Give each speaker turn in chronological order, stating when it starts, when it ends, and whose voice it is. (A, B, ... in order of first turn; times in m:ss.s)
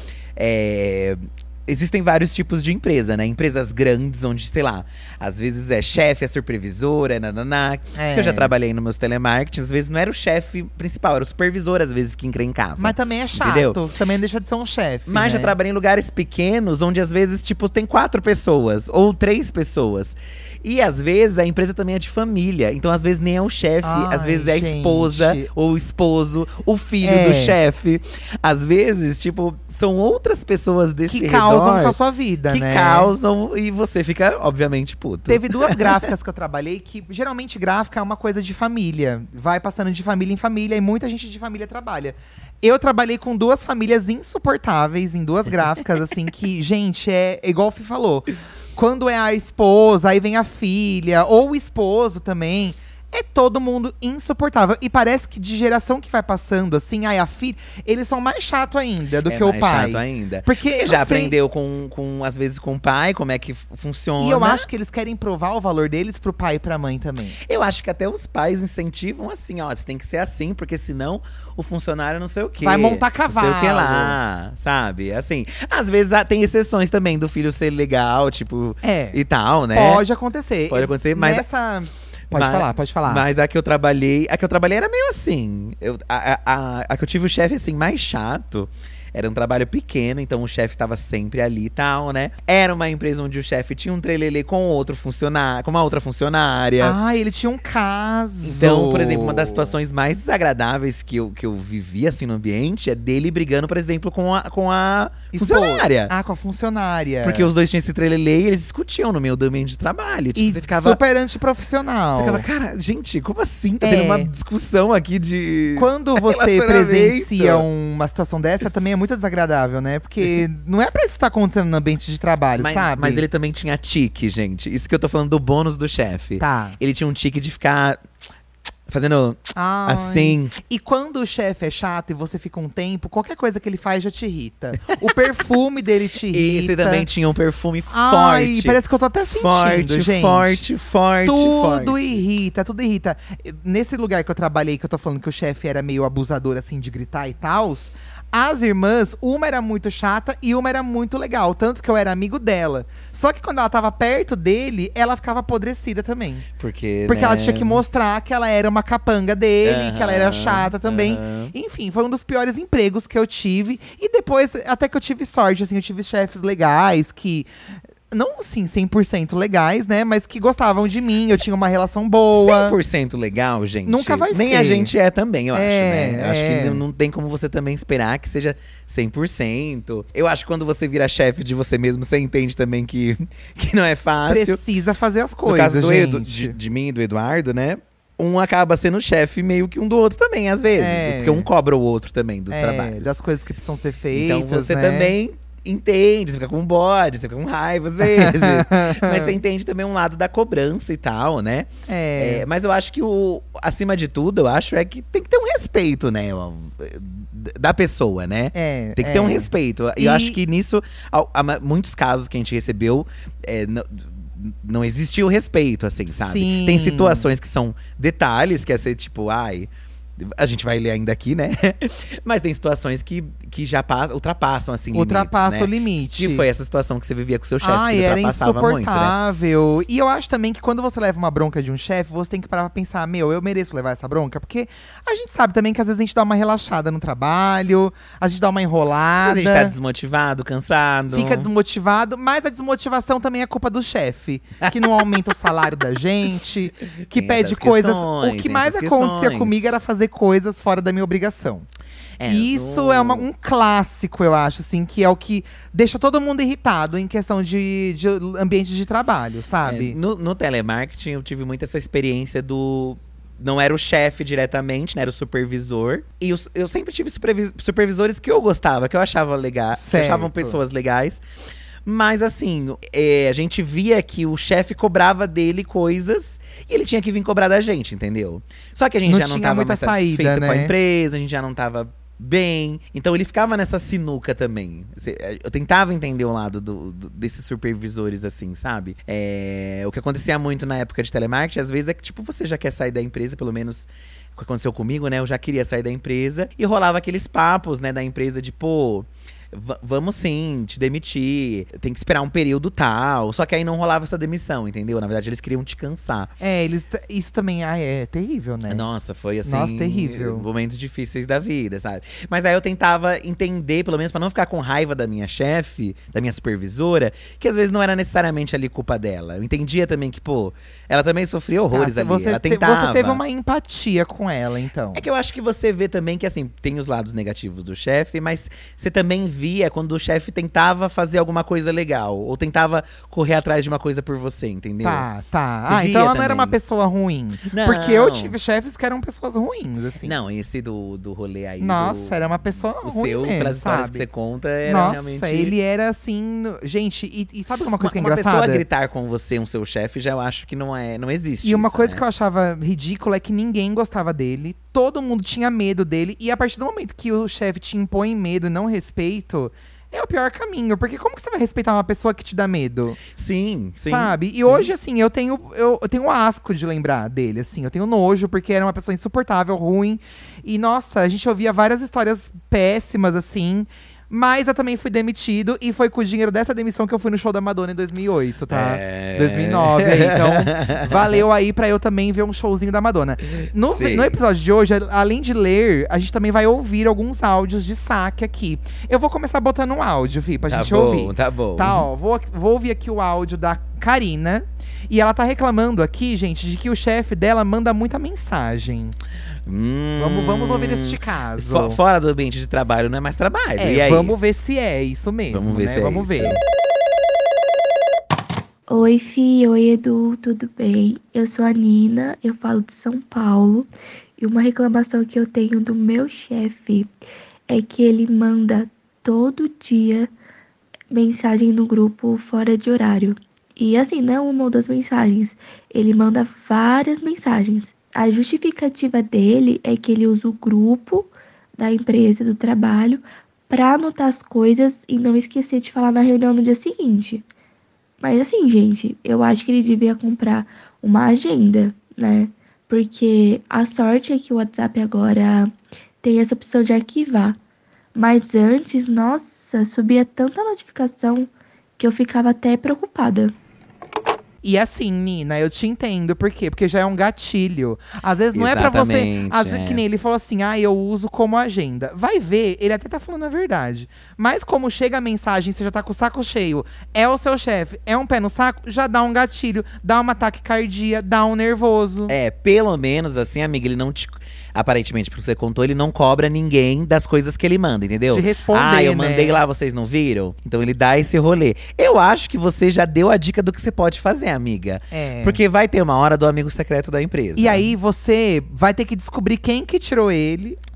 0:00.4-0:13.8 A
0:07.9-0:08.5 B
0:12.8-0:15.5 B
0:15.1-0:32.0 A
0:23.8-0:25.5 B
0:27.0-0:27.6 B
0:31.1-0:33.1 B
0:32.5-0:36.0 A
0:35.3-1:01.3 B
0:59.3-1:04.7 A
1:04.2-1:07.4 B
1:07.4-1:20.0 A
1:12.6-1:14.2 B
1:18.8-1:19.2 B
1:19.7-1:23.2 B
1:20.7-1:21.4 A
1:22.3-1:37.0 A
1:36.8-1:39.7 B
1:38.4-1:46.1 A
1:45.3-1:47.5 B
1:47.2-1:51.0 A
1:50.4-1:52.4 B
1:52.1-1:57.6 A
1:53.8-1:54.3 B
1:55.7-2:03.2 B
2:02.6-2:08.0 A
2:06.4-2:06.8 B
2:08.9-2:10.6 A
2:09.5-2:17.1 B
2:16.3-2:18.8 A
2:17.9-2:20.6 B
2:19.4-2:21.9 A
2:21.2-2:36.4 B
2:36.6-2:37.8 A
2:37.1-2:47.5 B
2:39.6-2:41.5 A
2:48.1-2:52.8 B
2:52.3-3:04.6 A
2:53.8-2:54.9 B
2:55.5-2:56.8 B
3:04.3-3:06.5 B
3:05.4-3:13.1 A
3:10.8-3:11.5 B
3:12.5-3:15.1 B
3:14.1-3:49.1 A
3:18.1-3:19.3 B
3:21.9-3:22.4 B
3:28.5-3:30.4 B
3:36.1-3:37.3 B
3:44.9-3:46.5 B
3:47.6-3:59.7 B
3:59.2-4:01.5 A
4:01.1-4:11.6 B
4:07.1-4:09.7 A
4:12.2-4:13.2 A
4:12.3-4:20.0 B
4:19.6-4:31.2 A
4:29.7-4:30.6 B
4:31.8-5:06.3 A
4:39.0-4:40.7 B
5:06.4-5:08.8 B
5:08.7-5:23.2 A
5:09.4-5:10.4 B
5:21.7-5:25.0 B
5:24.9-5:35.0 A
5:34.8-5:40.1 B
5:35.6-5:36.5 A
5:37.5-5:38.3 A
5:40.0-5:45.5 A
5:41.6-5:44.0 B
5:44.6-5:48.6 B
5:47.8-5:52.0 A
5:51.4-6:03.0 B
6:03.1-6:04.7 A
6:03.8-6:38.9 B
6:18.5-6:21.2 A
6:23.7-6:24.2 A
6:30.5-6:31.8 A
6:39.4-6:44.1 A
6:40.0-6:41.8 B
6:43.6-6:46.4 B
6:45.3-6:46.4 A
6:48.7-6:56.9 C
6:57.5-7:00.1 C
7:00.9-7:17.2 C
7:18.0-7:27.4 C
7:27.9-7:33.3 C
7:34.4-7:52.1 B
7:38.3-7:39.8 A
7:52.1-8:07.7 A
7:58.1-7:59.4 B
8:04.9-8:05.4 B
8:07.4-8:10.6 B